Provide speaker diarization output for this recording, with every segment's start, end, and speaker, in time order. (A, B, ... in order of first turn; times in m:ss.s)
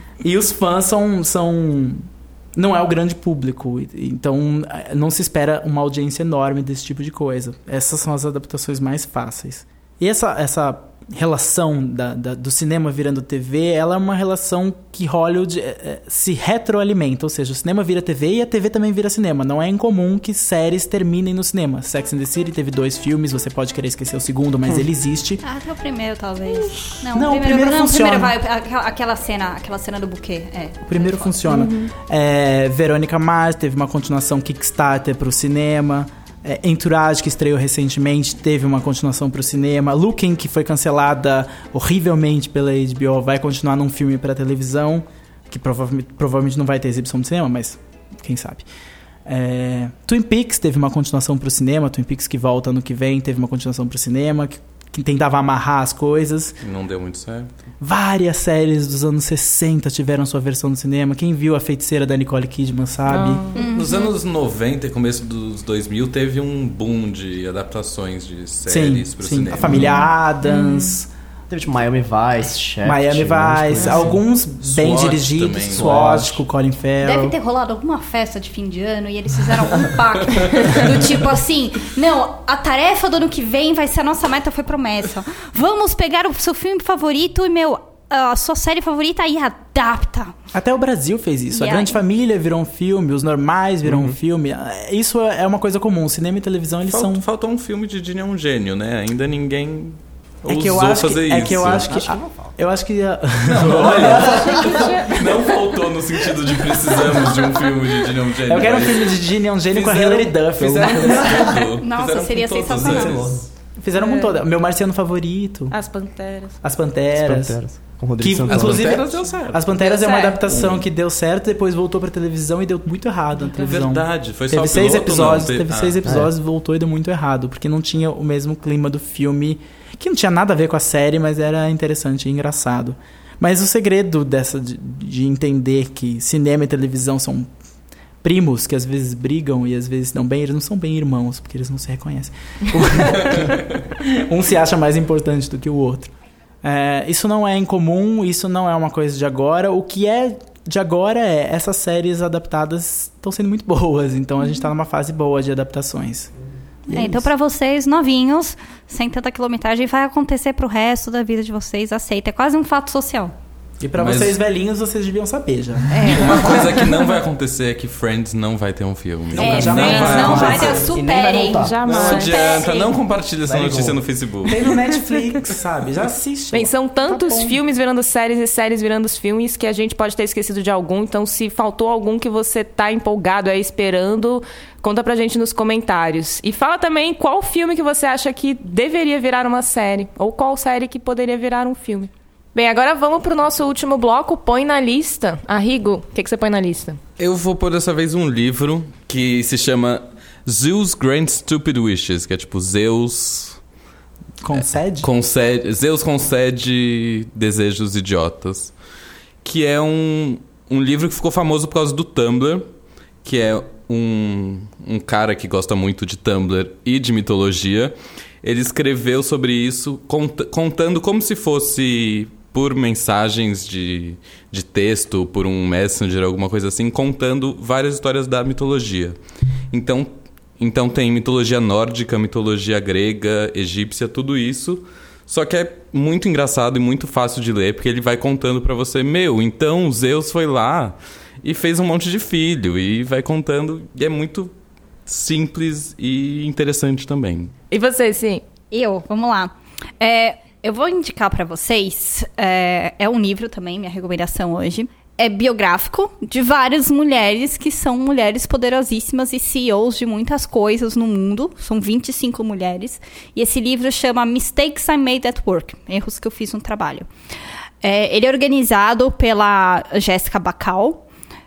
0:00.2-0:25.4 A
0:25.4-0:31.3 B
0:27.1-0:28.4 A
0:30.9-0:48.7 A
0:31.5-0:31.9 C
0:49.3-0:56.6 A
0:56.6-0:57.7 D
0:57.8-1:03.4 A
1:03.1-1:03.6 C
1:03.6-1:04.1 B
1:03.6-1:09.9 D
1:08.7-1:11.1 A
1:09.7-1:10.9 C
1:11.5-1:14.1 E
1:12.8-1:17.4 A
1:13.8-1:14.1 C
1:14.6-1:16.2 D
1:15.8-1:16.4 E
1:17.0-1:30.4 B
1:30.5-1:37.2 A
1:31.5-1:32.0 B
1:33.8-1:34.2 E
1:36.9-1:42.0 D
1:40.4-1:44.9 A
1:41.9-1:42.5 E
1:44.2-1:45.5 C
1:45.1-1:49.2 D
1:48.5-1:51.5 A
1:49.7-1:53.5 D
1:51.8-1:53.3 B
1:52.8-1:53.4 E
1:53.8-1:55.8 A
1:54.0-1:54.4 C
1:55.7-1:56.6 C
1:56.6-1:57.6 A
1:57.2-1:58.9 E
1:58.2-2:17.5 A
1:58.5-1:59.8 D
1:59.8-2:00.4 C
2:03.6-2:06.0 D
2:18.2-2:26.1 A
2:26.6-2:36.3 A
2:36.9-2:37.3 A
2:36.9-2:43.3 B
2:43.8-2:46.3 A
2:44.0-2:44.4 D
2:46.0-2:46.9 B
2:46.0-2:50.8 D
2:49.3-2:50.9 A
2:49.4-2:52.9 B
2:49.6-2:50.6 C
2:50.8-2:52.3 E
2:51.4-2:52.9 C
2:51.8-2:54.6 D
2:53.4-2:54.0 E
2:54.4-2:57.6 A
2:56.5-3:17.0 C
3:17.2-3:23.6 D
3:24.4-3:25.1 A
3:24.5-3:28.8 D
3:29.4-3:32.7 D
3:33.2-3:49.2 D
3:49.7-4:04.5 D
4:05.1-4:07.5 D
4:07.7-4:08.4 C
4:08.7-4:27.1 B
4:27.8-4:31.0 B